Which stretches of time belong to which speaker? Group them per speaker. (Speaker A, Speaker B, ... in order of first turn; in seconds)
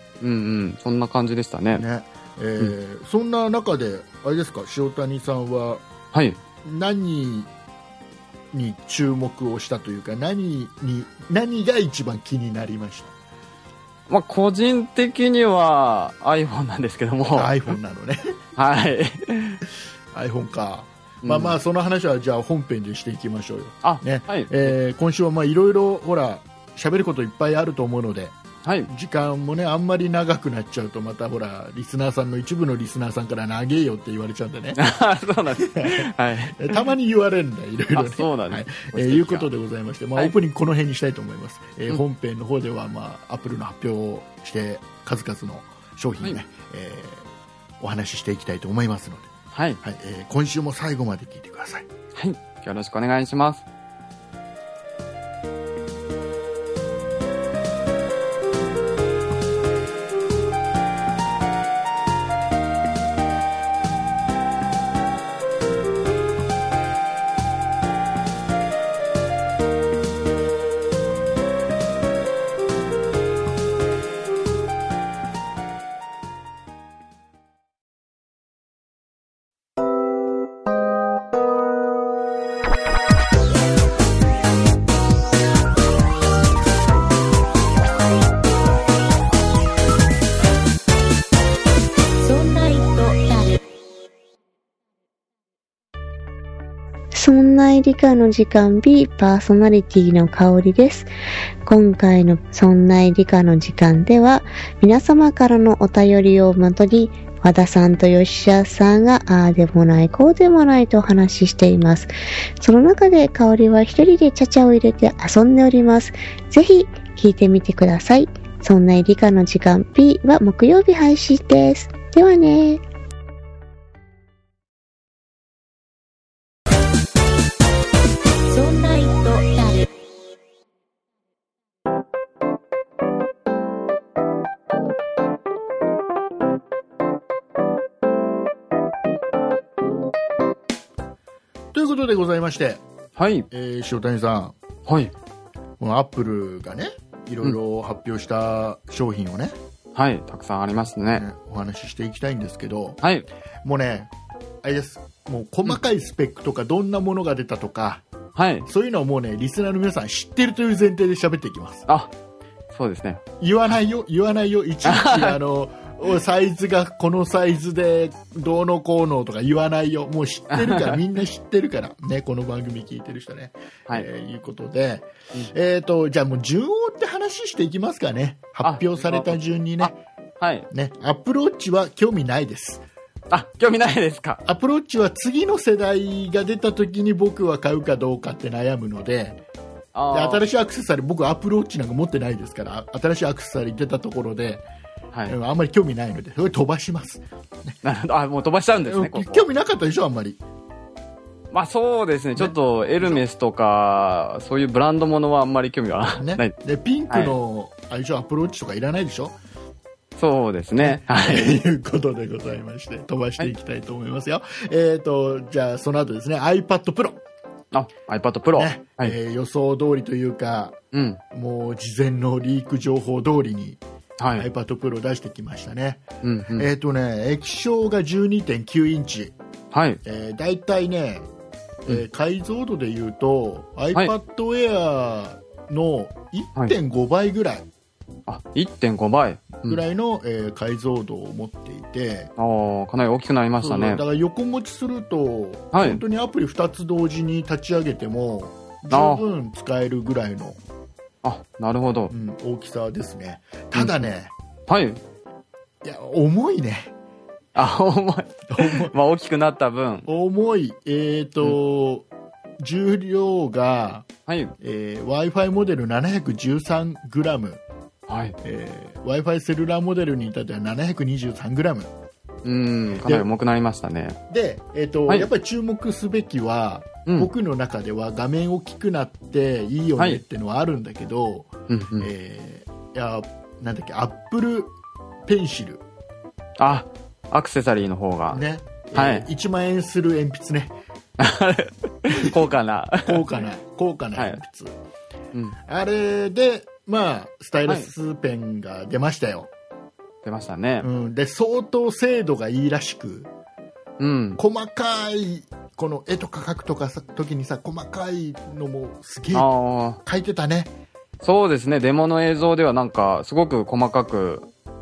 Speaker A: 0.2-1.8, 6.1-6.4, 14.1-17.5, 18.6-19.6, 21.2-21.6, 23.8-24.7, 28.6-28.9, 34.7-36.8, 37.9-39.5, 49.5-49.8, 52.1-53.6, 143.2-143.5, 144.8-145.1, 149.9-151.2, 153.0-153.3, 158.3-158.7, 162.7-163.2, 164.8-165.4, 170.5-171.0, 178.6-180.7, 183.3-184.4, 189.9-190.4, 197.8-199.5, 201.5-206.5, 210.2-211.6, 217.7-219.2, 220.9-221.2, 224.2-224.5, 226.2-226.7, 229.7-230.0, 238.3-239.8, 242.4-244.0, 245.7-246.0, 248.9-249.2, 251.2-252.1, 253.7-254.0, 254.7-255.0, 257.5-260.1, 264.3-264.5, 268.1-268.4, 272.4-274.2, 281.7-282.1, 286.6-288.4, 288.9-289.3, 291.2-293.2, 300.2-300.9, 304.0-304.4, 309.3-310.0, 311.2-314.5
Speaker B: 1.8-5.8, 6.6-7.5, 8.5-13.1, 17.3-18.4, 20.1-28.4, 28.9-34.8, 35.6-47.3, 47.8-51.9, 141.7-142.8, 143.5-144.5, 145.8-149.5, 151.1-153.0, 153.6-154.1, 154.6-158.0, 158.7-161.9, 163.4-180.0, 180.7-182.8, 184.4-189.4, 190.1-194.6, 195.3-197.8, 198.8-200.4, 202.3-203.2, 206.2-209.3, 210.8-217.2, 218.5-220.8, 221.3-223.8, 224.4-226.0, 226.5-229.3, 230.0-231.3, 231.8-237.7, 239.6-242.3, 243.6-250.6, 252.1-254.3, 255.8-256.9, 258.5-258.9, 260.1-262.1, 262.6-264.1, 264.6-267.6, 268.4-271.9, 274.3-284.7, 285.2-285.8, 288.3-290.8, 292.1-292.3, 293.0-294.8, 295.6-299.5, 300.8-303.3, 304.4-309.5, 310.0-310.7
Speaker C: 92.2-93.6, 128.5-129.9
Speaker D: 97.1-101.1, 101.6-122.8